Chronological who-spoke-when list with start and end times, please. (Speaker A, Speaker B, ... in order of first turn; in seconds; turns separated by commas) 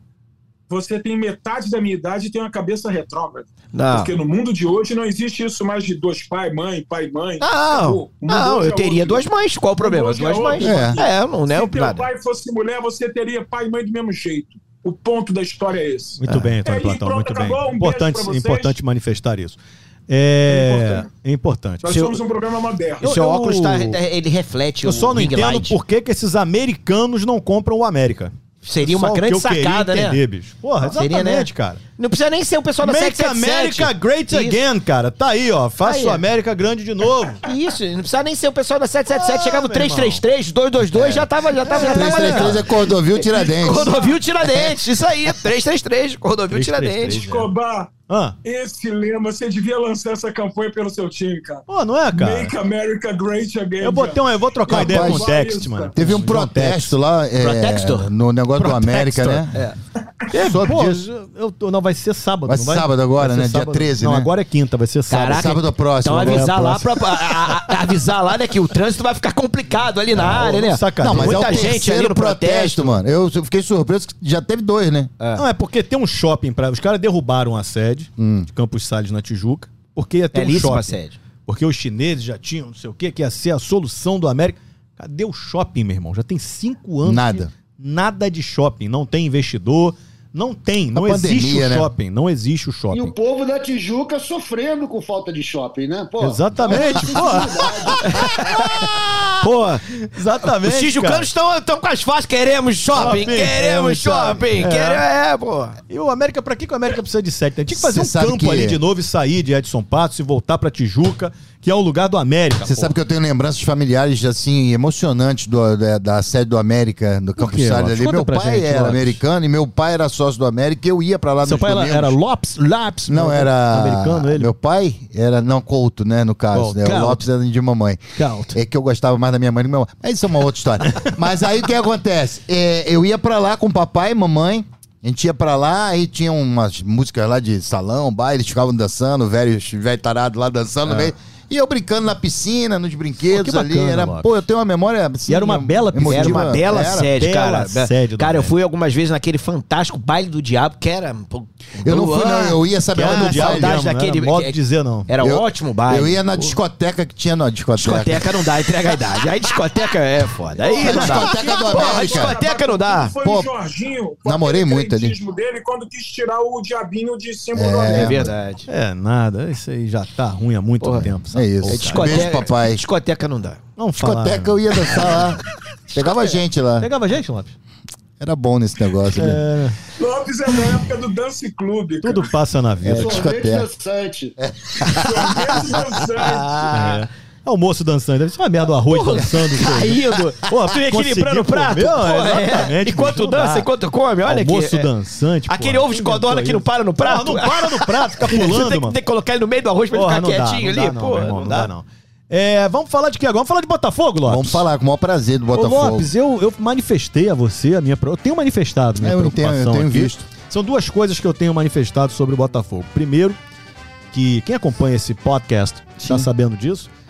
Speaker A: 0.7-9.2, Speaker B: 3.7-4.1, Speaker B: 7.4-12.1, Speaker A: 9.8-18.8, Speaker C: 10.6-11.0, Speaker D: 16.2-21.9, Speaker A: 20.5-21.1, Speaker A: 21.8-23.1, Speaker B: 21.9-22.2, Speaker D: 23.0-24.0, Speaker B: 23.0-25.8, Speaker D: 24.8-31.8, Speaker B: 28.6-30.2, Speaker B: 30.8-34.6, Speaker D: 32.8-37.5, Speaker B: 35.8-36.2, Speaker B: 37.4-47.2, Speaker D: 39.1-40.2, Speaker D: 40.9-42.6, Speaker C: 41.8-43.9, Speaker A: 43.3-44.2, Speaker D: 46.5-47.5, Speaker A: 47.1-56.0, Speaker D: 48.1-48.4, Speaker D: 51.7-52.5, Speaker D: 53.8-56.9, Speaker C: 54.7-55.3, Speaker C: 56.0-59.5, Speaker B: 57.4-58.1, Speaker D: 58.6-59.7, Speaker D: 60.3-65.5, Speaker C: 60.3-61.0, Speaker C: 62.5-64.3, Speaker B: 65.1-73.0, Speaker C: 65.3-66.5, Speaker D: 66.2-67.6, Speaker D: 70.2-71.8, Speaker C: 71.0-75.1, Speaker D: 75.4-93.1, Speaker C: 78.2-78.5, Speaker B: 80.3-81.2, Speaker C: 87.0-87.5, Speaker C: 90.9-91.9, Speaker E: 92.9-98.7, Speaker D: 96.2-99.1, Speaker B: 98.0-99.9, Speaker D: 100.0-101.3, Speaker B: 100.6-105.8, Speaker D: 102.9-105.0, Speaker D: 105.9-112.9, Speaker C: 107.7-108.8, Speaker C: 112.6-122.2, Speaker D: 117.4-119.2, Speaker D: 121.4-124.5, Speaker C: 123.1-128.0, Speaker D: 126.5-127.2, Speaker D: 128.2-128.6, Speaker C: 128.5-147.1, Speaker D: 130.9-131.2, Speaker D: 143.3-144.3, Speaker D: 145.3-148.5, Speaker B: 146.1-156.6, Speaker C: 151.8-153.8, Speaker D: 152.9-155.1, Speaker C: 155.2-158.3, Speaker B: 157.8-163.1, Speaker D: 160.6-161.3, Speaker A: 160.8-168.2, Speaker C: 160.8-162.4, Speaker C: 163.2-163.5, Speaker C: 164.2-165.2, Speaker C: 167.5-168.3, Speaker B: 167.9-168.7, Speaker D: 168.7-172.3, Speaker B: 170.8-171.1, Speaker C: 171.3-172.8, Speaker B: 171.6-173.6, Speaker D: 173.8-175.2, Speaker C: 174.0-175.4, Speaker C: 175.9-176.9, Speaker D: 176.8-177.6, Speaker C: 178.2-179.4, Speaker D: 179.2-179.8, Speaker A: 180.0-182.3, Speaker D: 182.0-183.3, Speaker C: 182.8-183.7, Speaker E: 182.9-184.4, Speaker C: 184.4-185.8, Speaker A: 184.8-186.7, Speaker B: 186.2-187.0, Speaker D: 186.7-193.7, Speaker B: 188.9-194.9, Speaker D: 194.3-199.0, Speaker B: 195.5-201.7, Speaker D: 199.9-204.6, Speaker C: 204.3-206.1, Speaker D: 205.5-213.4, Speaker C: 209.0-210.3, Speaker D: 214.1-216.9